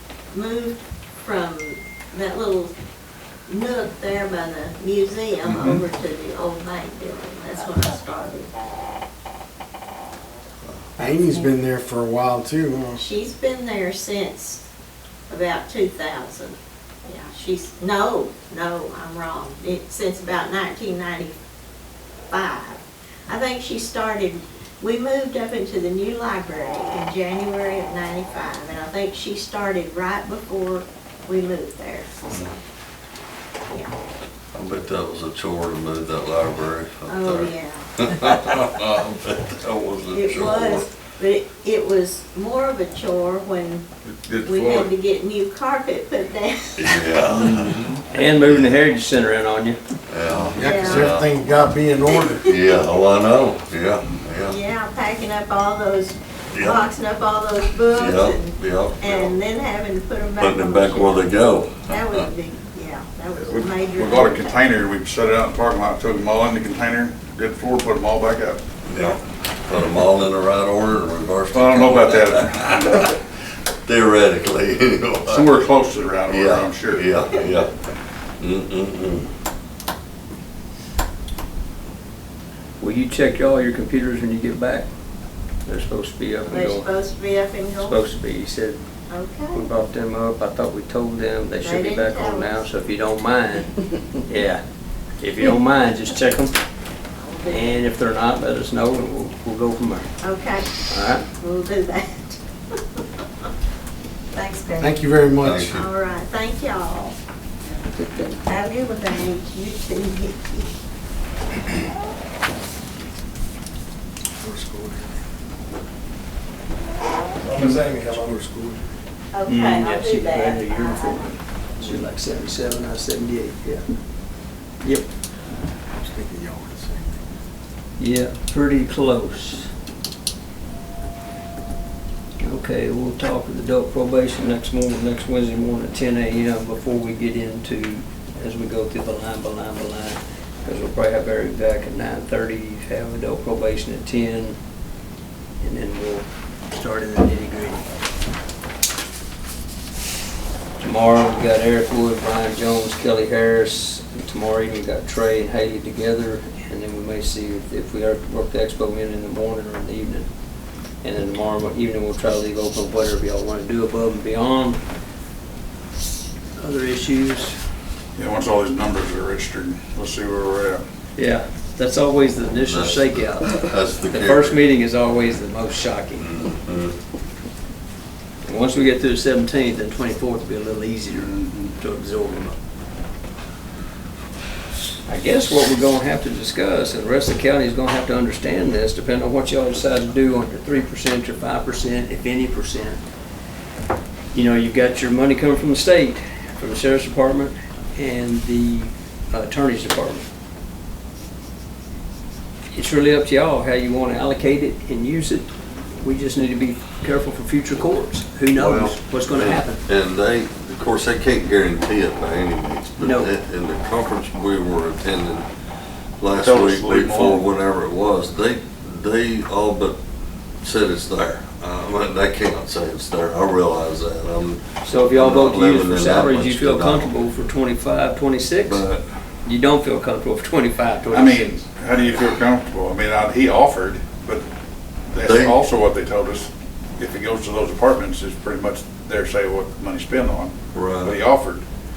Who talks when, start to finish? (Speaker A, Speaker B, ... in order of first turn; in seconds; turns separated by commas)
Speaker A: 0.3-2.7, Speaker A: 3.5-8.5, Speaker B: 5.4-5.8, Speaker C: 11.0-13.0, Speaker A: 12.9-14.6, Speaker A: 15.3-21.4, Speaker A: 22.3-32.6, Speaker D: 34.5-40.9, Speaker A: 37.1-37.9, Speaker A: 40.1-43.9, Speaker A: 44.4-47.1, Speaker D: 46.8-48.7, Speaker E: 48.1-49.8, Speaker D: 50.1-51.3, Speaker C: 50.5-52.5, Speaker A: 50.5-51.1, Speaker D: 52.5-54.6, Speaker A: 54.5-64.6, Speaker D: 56.5-56.8, Speaker D: 57.9-59.4, Speaker D: 60.4-62.3, Speaker B: 63.4-68.6, Speaker D: 68.8-73.1, Speaker B: 71.5-73.1, Speaker D: 73.8-75.5, Speaker B: 75.3-77.1, Speaker D: 76.3-77.7, Speaker D: 78.4-79.3, Speaker E: 82.8-84.9, Speaker E: 85.7-86.9, Speaker A: 86.5-88.0, Speaker E: 87.8-88.8, Speaker A: 89.1-89.6, Speaker E: 89.5-94.6, Speaker A: 91.6-92.6, Speaker E: 95.2-96.5, Speaker A: 97.2-97.8, Speaker E: 97.5-100.1, Speaker A: 100.2-100.7, Speaker E: 100.9-101.2, Speaker A: 101.4-102.4, Speaker A: 104.3-107.2, Speaker C: 104.8-105.7, Speaker D: 105.4-105.9, Speaker E: 108.0-108.3, Speaker A: 108.4-110.7, Speaker C: 114.4-115.2, Speaker C: 117.4-118.9, Speaker A: 119.3-121.3, Speaker B: 119.5-119.8, Speaker E: 119.8-123.8, Speaker C: 125.9-127.3, Speaker E: 128.0-129.7, Speaker E: 132.4-144.6, Speaker E: 145.6-147.9, Speaker E: 150.8-160.2, Speaker E: 161.0-164.8, Speaker E: 166.6-167.6, Speaker B: 168.2-170.8, Speaker E: 171.2-176.3, Speaker D: 172.6-174.6, Speaker D: 176.2-177.0, Speaker E: 178.4-182.6, Speaker B: 181.1-181.7, Speaker E: 185.1-193.0, Speaker E: 194.3-200.3, Speaker E: 202.7-209.8, Speaker D: 208.5-215.5, Speaker E: 213.0-213.3, Speaker D: 216.2-220.0, Speaker B: 216.3-217.5, Speaker D: 220.6-227.1, Speaker E: 224.8-228.8, Speaker D: 228.6-229.0, Speaker E: 229.4-231.5, Speaker B: 231.1-234.4, Speaker B: 235.1-241.6, Speaker D: 235.2-235.6, Speaker D: 240.7-241.2